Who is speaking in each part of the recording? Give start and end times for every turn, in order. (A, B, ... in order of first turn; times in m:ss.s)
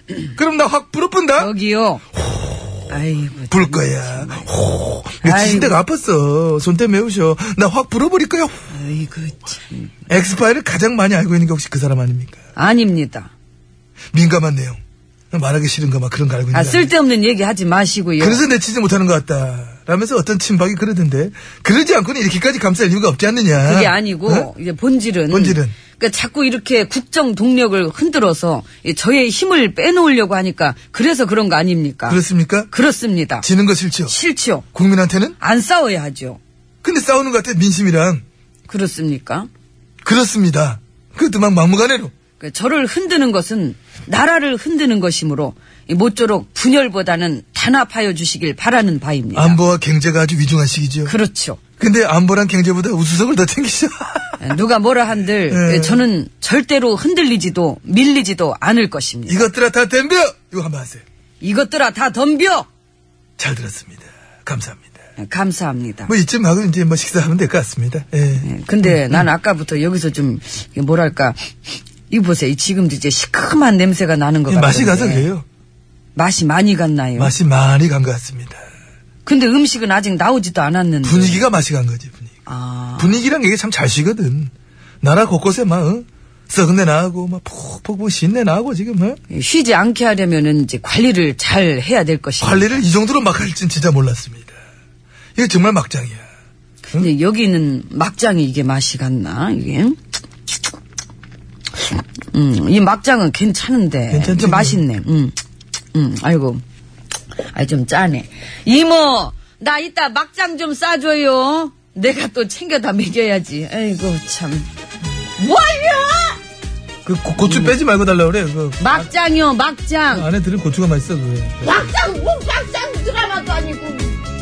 0:00.4-0:01.5 A
0:01.4-0:02.0 B
0:02.1-0:08.7 A
0:02.9-0:04.5 B
0:05.2-0:05.8 B
0:08.7-0:10.0 B
0:10.1-0:12.4 A
0:12.6-0:13.3 B
0:14.1-0:14.8 A
0:15.3-0:16.9 A
0:16.5-0:18.4 B
0:18.2-0:24.5 A
0:23.6-0:33.5 B
0:25.3-0:25.8 A
0:32.1-0:32.7 A
0:33.4-0:34.2 A
0:34.1-0:34.7 B
0:34.7-0:35.4 A
0:35.4-0:36.4 B
0:36.8-0:38.2 A
0:38.7-0:39.5 B
0:40.0-0:42.1 A
0:42.4-0:49.6 B
0:49.3-0:51.2 A
0:51.1-0:51.6 B
0:51.8-0:54.6 A
0:54.4-0:59.5 B
0:55.5-0:56.1 A
0:59.3-1:01.0 A
1:01.4-1:02.7 B
1:03.4-1:04.9 A
1:05.2-1:06.1 B
1:06.1-1:09.3 A
1:08.4-1:11.5 B
1:12.1-1:15.3 B
1:14.5-1:15.5 A
1:16.2-1:17.4 B
1:17.2-1:18.6 A
1:19.2-1:21.5 B
1:21.0-1:22.3 A
1:22.5-1:23.2 B
1:23.0-1:29.2 A
1:29.3-1:32.8 B
1:32.4-1:34.6 A
1:35.4-1:36.3 A
1:36.9-1:40.0 B
1:41.8-1:45.4 B
1:44.1-1:44.8 A
1:45.9-1:46.6 B
1:47.4-1:54.7 B
1:55.4-1:56.4 B
1:57.0-1:59.1 A
1:57.4-1:57.8 B
1:58.8-2:00.3 B
2:00.1-2:01.7 A
2:01.6-2:04.2 B